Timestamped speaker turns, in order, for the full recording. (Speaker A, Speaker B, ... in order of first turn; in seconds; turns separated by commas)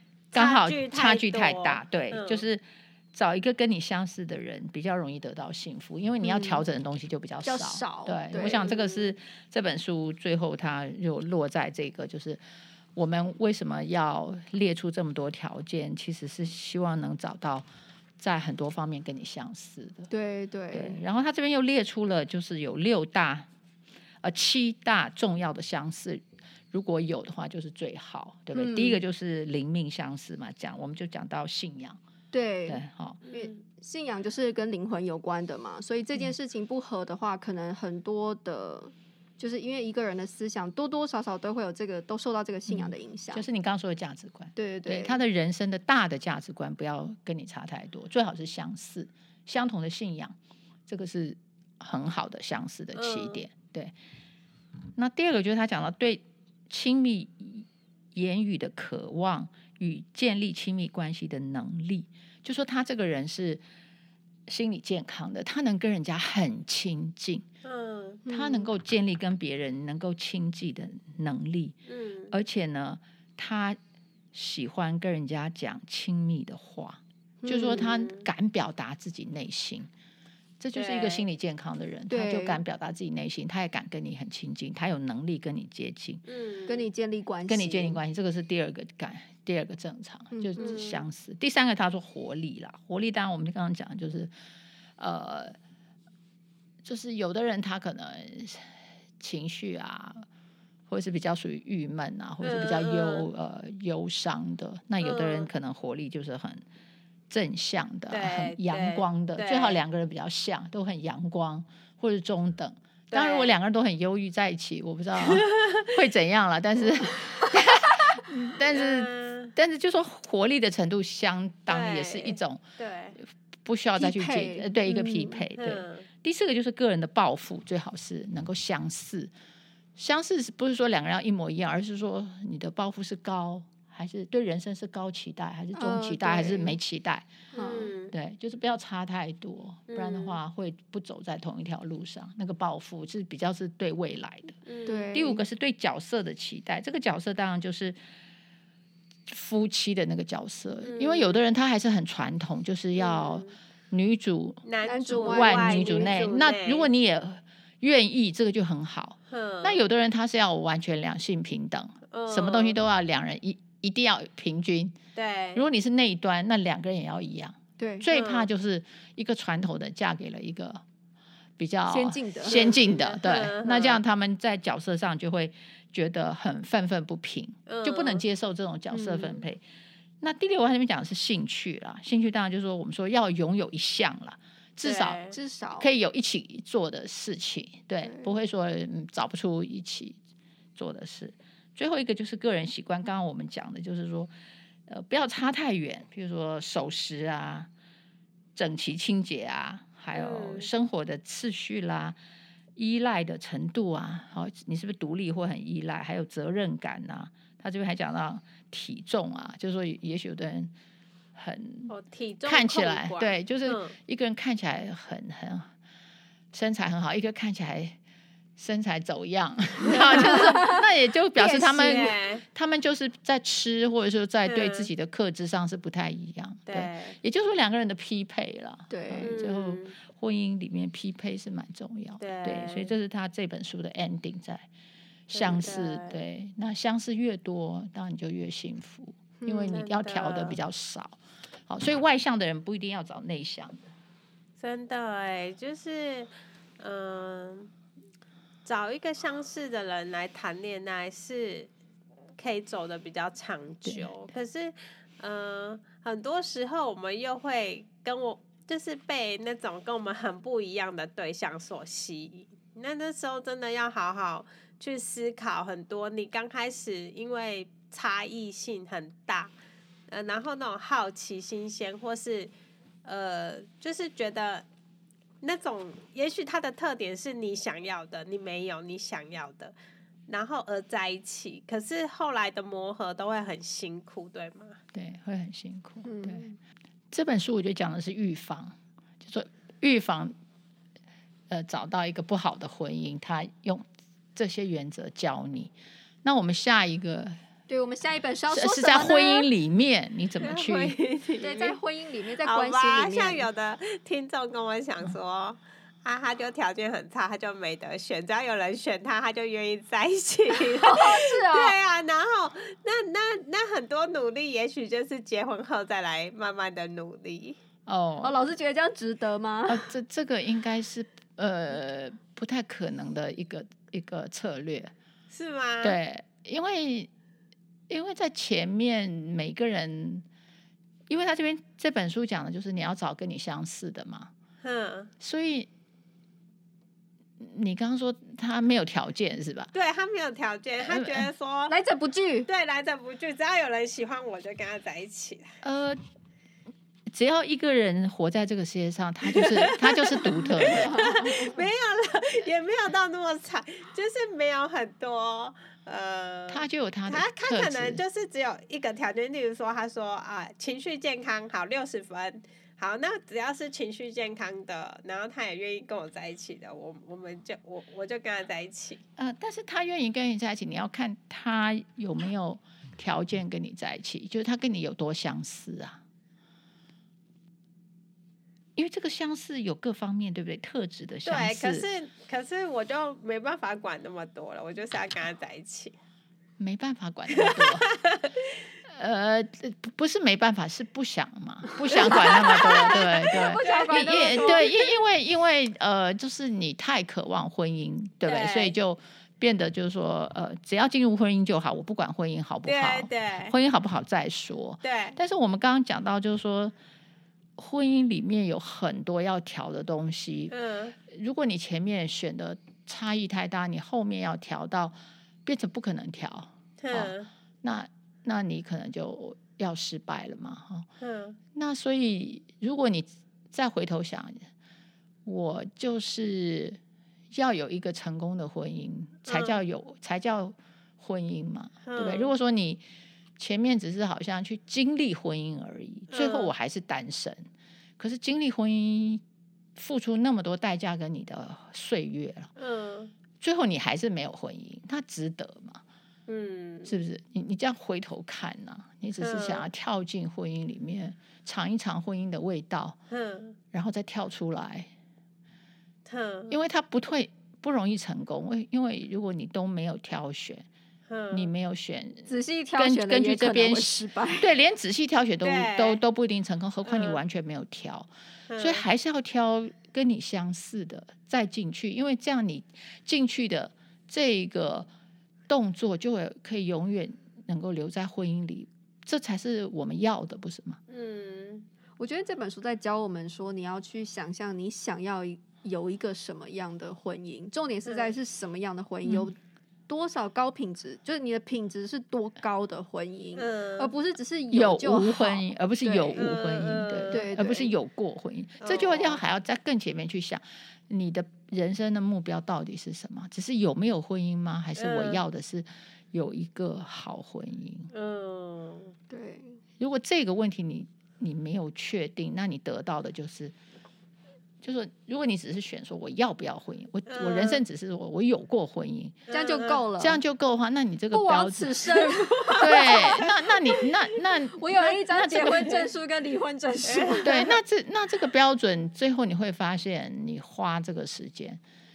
Speaker A: 0.3-2.4, Speaker B: 0.3-12.4, Speaker C: 6.2-6.7, Speaker C: 7.5-8.7, Speaker A: 8.5-9.1, Speaker B: 12.9-17.7, Speaker B: 18.2-20.1, Speaker C: 20.1-21.0, Speaker B: 20.7-23.5, Speaker B: 24.2-32.0, Speaker C: 28.6-29.0, Speaker C: 32.3-43.5, Speaker B: 32.7-33.2, Speaker A: 33.3-33.5, Speaker B: 42.7-50.4, Speaker C: 44.6-45.2, Speaker B: 50.9-53.9, Speaker A: 53.0-53.4, Speaker B: 55.0-63.6, Speaker B: 64.5-67.5, Speaker A: 67.6-68.2, Speaker C: 68.3-68.7, Speaker B: 68.3-71.8, Speaker A: 71.9-72.3, Speaker B: 72.3-73.8, Speaker B: 74.3-79.9, Speaker C: 77.4-77.9, Speaker A: 77.7-78.3, Speaker B: 80.6-86.2, Speaker A: 80.8-81.3, Speaker C: 82.1-82.6, Speaker A: 86.3-86.8, Speaker C: 86.7-88.0, Speaker B: 87.5-94.3, Speaker C: 90.3-90.8, Speaker A: 90.6-91.0, Speaker B: 95.0-95.6, Speaker B: 96.8-100.3, Speaker B: 100.9-106.6, Speaker A: 102.4-103.3, Speaker A: 105.0-105.5, Speaker B: 107.3-122.6, Speaker A: 108.1-109.8, Speaker A: 113.1-113.5, Speaker A: 115.2-115.9, Speaker A: 118.7-119.5, Speaker A: 121.7-123.2, Speaker B: 123.6-129.3, Speaker C: 124.0-125.5, Speaker A: 125.6-126.1, Speaker B: 130.0-137.3, Speaker C: 135.8-136.8, Speaker C: 137.5-137.9, Speaker A: 137.6-138.1, Speaker B: 138.1-144.6, Speaker A: 139.9-140.4, Speaker A: 144.7-145.1, Speaker C: 144.9-145.4, Speaker B: 145.1-148.0, Speaker B: 149.3-154.6, Speaker A: 150.8-151.4, Speaker A: 153.0-153.5, Speaker A: 154.7-156.9, Speaker C: 154.8-156.2, Speaker B: 155.2-165.0, Speaker A: 159.3-159.8, Speaker A: 162.1-162.8, Speaker A: 165.2-165.7, Speaker B: 165.6-170.8, Speaker C: 167.8-168.1, Speaker A: 168.1-168.5, Speaker B: 171.6-179.6, Speaker C: 171.9-172.8, Speaker A: 172.5-174.0, Speaker A: 177.7-178.2, Speaker C: 178.9-179.4, Speaker B: 180.2-185.2, Speaker A: 184.8-185.4, Speaker C: 185.3-185.9, Speaker B: 185.8-190.2, Speaker C: 188.0-188.3, Speaker B: 190.8-194.3, Speaker B: 194.9-197.7, Speaker B: 198.6-202.2, Speaker A: 200.1-200.7, Speaker B: 202.8-210.7, Speaker B: 211.3-211.9, Speaker A: 211.9-214.0, Speaker B: 212.4-215.7, Speaker B: 216.5-218.0, Speaker B: 218.6-234.7, Speaker A: 219.9-220.5, Speaker C: 219.9-220.8, Speaker C: 221.4-222.2, Speaker A: 221.8-222.4, Speaker A: 224.4-224.9, Speaker A: 226.7-227.2, Speaker C: 228.9-229.4, Speaker A: 229.2-229.9, Speaker A: 232.2-232.9, Speaker B: 235.3-243.8, Speaker A: 235.3-236.2, Speaker C: 239.4-239.8, Speaker A: 239.7-240.6, Speaker A: 244.6-247.7, Speaker A: 248.7-251.7, Speaker A: 252.4-269.5, Speaker A: 270.1-272.5, Speaker A: 273.1-274.6, Speaker A: 275.4-279.7, Speaker A: 280.3-284.8, Speaker B: 284.9-286.4, Speaker C: 286.1-286.6, Speaker B: 287.1-290.3, Speaker B: 291.5-297.4, Speaker C: 297.7-299.5, Speaker B: 298.5-301.0, Speaker A: 300.4-301.8, Speaker C: 301.4-303.5, Speaker A: 302.4-317.6, Speaker C: 310.5-311.8, Speaker B: 317.9-318.4, Speaker C: 318.2-319.9, Speaker B: 319.7-324.9, Speaker A: 325.3-326.0, Speaker B: 325.8-327.1, Speaker B: 327.9-330.2, Speaker B: 331.1-334.3, Speaker A: 334.6-335.1, Speaker B: 335.2-335.7, Speaker B: 337.4-339.7, Speaker A: 339.7-341.8, Speaker B: 340.8-341.3, Speaker C: 341.7-342.5, Speaker A: 342.5-345.5, Speaker B: 345.6-346.0, Speaker B: 347.1-351.2, Speaker A: 349.3-369.0, Speaker C: 350.6-351.6, Speaker B: 356.5-358.0, Speaker B: 369.2-376.0, Speaker B: 378.8-381.9, Speaker A: 381.2-386.0, Speaker B: 386.6-387.9, Speaker A: 387.4-388.4, Speaker B: 388.9-406.7, Speaker C: 391.9-394.7, Speaker A: 391.9-394.8, Speaker A: 398.2-398.8, Speaker A: 402.7-403.6, Speaker A: 404.8-405.2, Speaker B: 407.6-410.5, Speaker A: 410.5-411.0, Speaker B: 411.1-420.9, Speaker A: 416.8-417.3, Speaker A: 421.0-421.4, Speaker B: 421.5-424.4, Speaker B: 425.2-426.8, Speaker B: 427.3-432.8, Speaker A: 429.3-429.6, Speaker A: 431.8-432.3, Speaker B: 433.4-437.4, Speaker A: 436.1-436.5, Speaker B: 438.0-439.2, Speaker B: 439.8-442.5, Speaker A: 442.6-443.1, Speaker B: 443.4-445.8, Speaker A: 446.3-446.9, Speaker B: 446.9-453.0, Speaker A: 449.2-449.7, Speaker A: 453.1-453.6, Speaker B: 453.7-454.9, Speaker A: 456.1-456.6, Speaker B: 456.5-460.7, Speaker A: 461.1-461.5, Speaker B: 461.3-474.9, Speaker C: 462.3-464.5, Speaker A: 465.4-466.0, Speaker A: 466.9-467.2, Speaker A: 468.5-468.8, Speaker B: 475.5-480.8, Speaker A: 480.9-481.7, Speaker C: 482.0-489.4, Speaker A: 487.9-488.1, Speaker B: 489.1-489.3, Speaker C: 489.9-496.3, Speaker A: 493.4-493.9, Speaker B: 494.5-507.9, Speaker A: 496.2-497.3, Speaker C: 497.1-497.7, Speaker A: 498.6-499.2, Speaker A: 504.8-505.2, Speaker A: 507.9-508.9, Speaker C: 509.1-509.6, Speaker B: 509.8-513.5, Speaker B: 514.6-519.2, Speaker A: 517.1-517.6, Speaker A: 519.3-519.8, Speaker C: 519.3-520.2, Speaker B: 520.0-525.8, Speaker C: 521.1-523.8, Speaker C: 524.5-527.5, Speaker A: 526.8-527.5, Speaker B: 527.2-531.6